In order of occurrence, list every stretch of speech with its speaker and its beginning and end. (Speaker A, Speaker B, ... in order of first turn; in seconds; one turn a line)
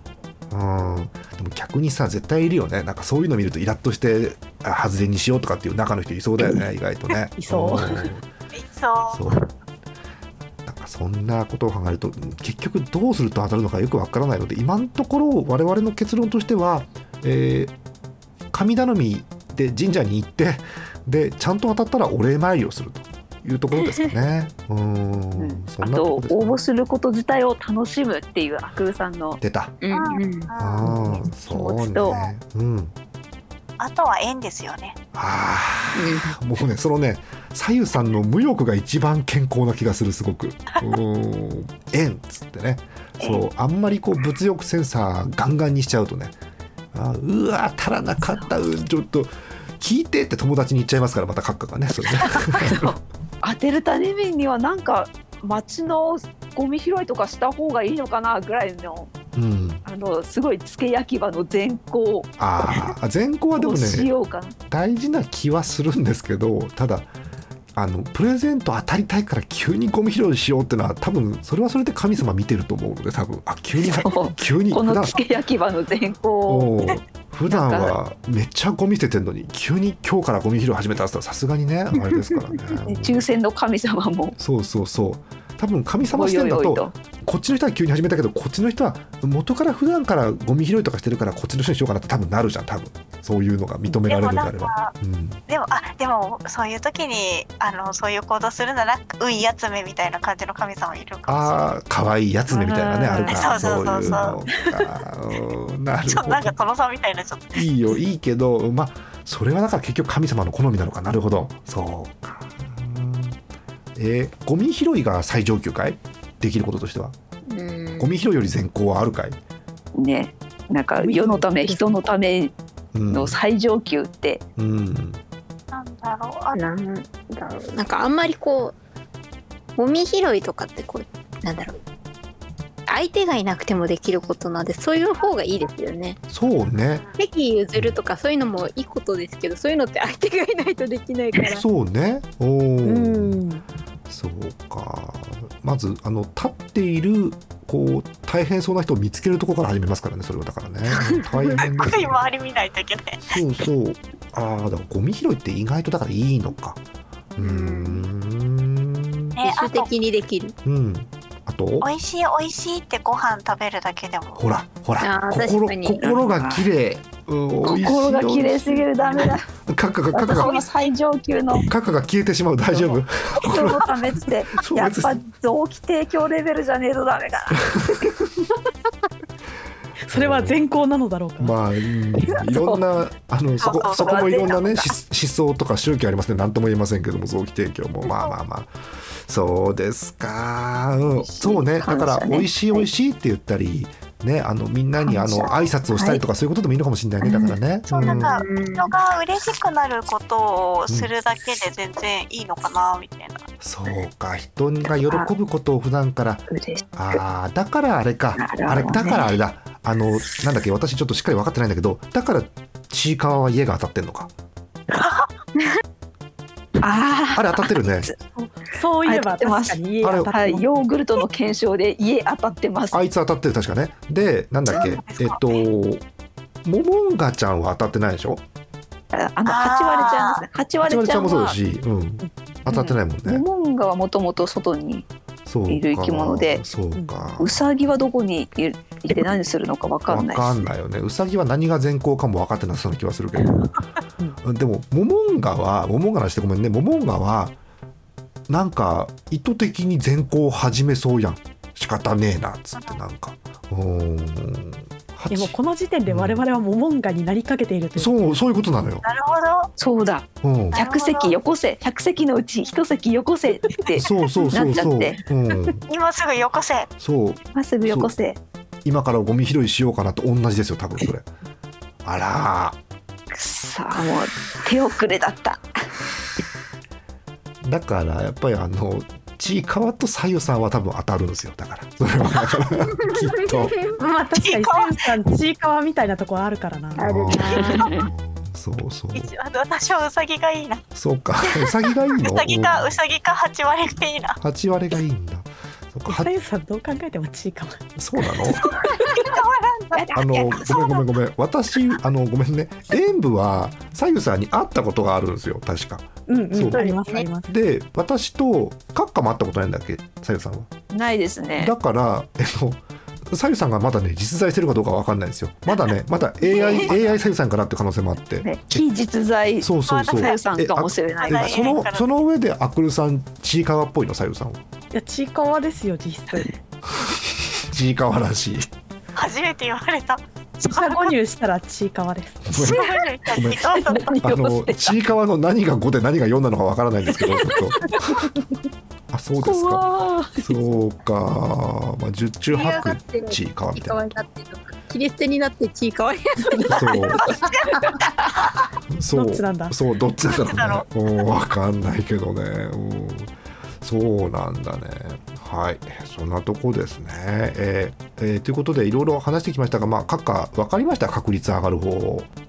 Speaker A: 0.5-8.3
Speaker B: 7.3-8.1
Speaker C: 8.6-9.2
Speaker A: 9.1-9.4
Speaker A: 10.6-17.7
Speaker A: 18.5-26.6
Speaker D: 25.4-29.4
Speaker A: 29.4-29.7
Speaker E: 29.8-31.2
Speaker C: 29.9-31.1
Speaker A: 30.6-32.9
Speaker D: 31.4-32.1
Speaker C: 32.1-32.3
Speaker C: 33.8-35.0
Speaker A: 35.1-46.3
Speaker E: 35.9-36.4
Speaker D: 43.2-43.4
Speaker A: 46.9-53.0
Speaker D: 52.2-59.1
Speaker A: 59.4-59.8
Speaker D: 59.9-62.9
Speaker A: 62.4-64.1
Speaker D: 63.6-64.5
Speaker A: 64.7-67.1
Speaker A: 67.7-75.2
Speaker D: 73.8-76.8
Speaker A: 76.5-83.2
Speaker D: 77.5-78.0
Speaker D: 82.8-84.3
Speaker A: 84.4-95.4
Speaker D: 86.1-86.9
Speaker C: 94.1-94.9
Speaker C: 95.5-101.6
Speaker A: 101.3-106.5
Speaker D: 102.5-104.2
Speaker C: 103.2-104.4
Speaker C: 106.1-107.7
Speaker A: 107.5-113.4
Speaker A: 114.0-117.1
Speaker E: 117.5-118.1
Speaker A: 118.0-119.4
Speaker D: 119.9-122.5
Speaker B: 121.0-122.1
Speaker A: 122.9-123.4
Speaker D: 123.1-124.4
Speaker A: 124.6-125.2
Speaker C: 125.7-126.6
Speaker E: 126.5-128.8
Speaker E: 129.8-131.8
Speaker E: 132.9-136.2
Speaker A: 136.3-137.0
Speaker E: 137.2-141.6
Speaker A: 141.5-143.4
Speaker B: 142.8-143.6
Speaker A: 144.1-152.2
Speaker E: 150.9-151.6
Speaker C: 151.6-153.4
Speaker A: 153.2-156.8
Speaker A: 157.3-159.4
Speaker E: 157.4-158.1
Speaker C: 159.3-159.9
Speaker E: 159.4-160.5
Speaker A: 160.6-161.9
Speaker C: 161.8-164.4
Speaker A: 164.4-170.6
Speaker E: 165.0-166.1
Speaker D: 166.0-166.7
Speaker D: 167.6-169.5
Speaker D: 170.1-171.7
Speaker A: 171.6-173.9
Speaker D: 172.7-178.5
Speaker A: 174.5-175.2
Speaker B: 180.1-181.6
Speaker A: 180.1-180.6
Speaker A: 181.4-198.4
Speaker D: 182.2-182.8
Speaker C: 183.6-184.9
Speaker D: 183.9-184.7
Speaker C: 188.1-188.3
Speaker D: 191.2-192.9
Speaker D: 195.0-196.2
Speaker C: 197.9-203.5
Speaker E: 198.0-198.9
Speaker A: 203.6-206.4
Speaker D: 204.9-205.3
Speaker D: 206.5-207.2
Speaker A: 206.9-214.3
Speaker D: 208.4-209.3
Speaker D: 216.8-218.1
Speaker A: 217.3-218.1
Speaker B: 218.3-220.8
Speaker D: 219.0-223.0
Speaker A: 220.0-220.3
Speaker A: 222.9-226.0
Speaker C: 224.8-225.4
Speaker A: 226.6-228.4
Speaker D: 229.1-231.6
Speaker C: 229.4-230.4
Speaker A: 230.8-233.4
Speaker D: 232.7-235.1
Speaker A: 235.4-237.7
Speaker D: 235.7-236.6
Speaker B: 236.9-237.2
Speaker D: 237.4-240.7
Speaker A: 240.1-243.8
Speaker A: 244.4-247.6
Speaker A: 248.5-255.5
Speaker B: 255.3-258.1
Speaker A: 256.1-256.4
Speaker A: 258.0-259.0
Speaker C: 259.0-259.7
Speaker D: 259.8-265.2
Speaker A: 260.4-260.8
Speaker C: 260.7-261.4
Speaker A: 263.9-265.8
Speaker C: 265.9-266.9
Speaker A: 267.0-268.1
Speaker D: 267.5-268.4
Speaker A: 268.8-271.3
Speaker A: 272.0-272.8
Speaker D: 273.3-275.7
Speaker A: 277.6-283.9
Speaker E: 283.0-284.0
Speaker B: 284.0-287.5
Speaker C: 284.3-285.1
Speaker E: 287.0-288.1
Speaker A: 287.0-289.3
Speaker D: 287.4-288.1
Speaker C: 289.1-290.8
Speaker A: 290.9-292.9
Speaker C: 291.4-294.4
Speaker A: 294.4-296.3
Speaker B: 296.1-297.8
Speaker A: 298.0-298.8
Speaker C: 298.6-300.8
Speaker D: 299.9-301.0
Speaker A: 300.1-306.8
Speaker B: 306.3-307.5
Speaker D: 306.7-307.2
Speaker A: 307.5-310.7
Speaker D: 310.9-311.7
Speaker A: 311.6-318.8
Speaker D: 316.4-317.0
Speaker D: 318.4-321.8
Speaker A: 319.6-324.6
Speaker C: 319.9-320.4
Speaker C: 321.2-322.1
Speaker B: 324.9-326.5
Speaker A: 327.1-328.7
Speaker C: 329.1-331.1
Speaker B: 330.6-332.5
Speaker A: 332.5-332.8
Speaker C: 332.6-334.2
Speaker D: 332.8-335.0
Speaker A: 333.3-333.6
Speaker A: 334.2-338.3
Speaker D: 337.1-338.2
Speaker A: 339.1-339.8
Speaker D: 339.4-340.5
Speaker A: 340.4-344.0
Speaker E: 342.5-347.9
Speaker A: 346.7-347.3
Speaker C: 347.2-347.9
Speaker A: 348.9-362.3
Speaker B: 349.1-349.7
Speaker C: 350.3-350.9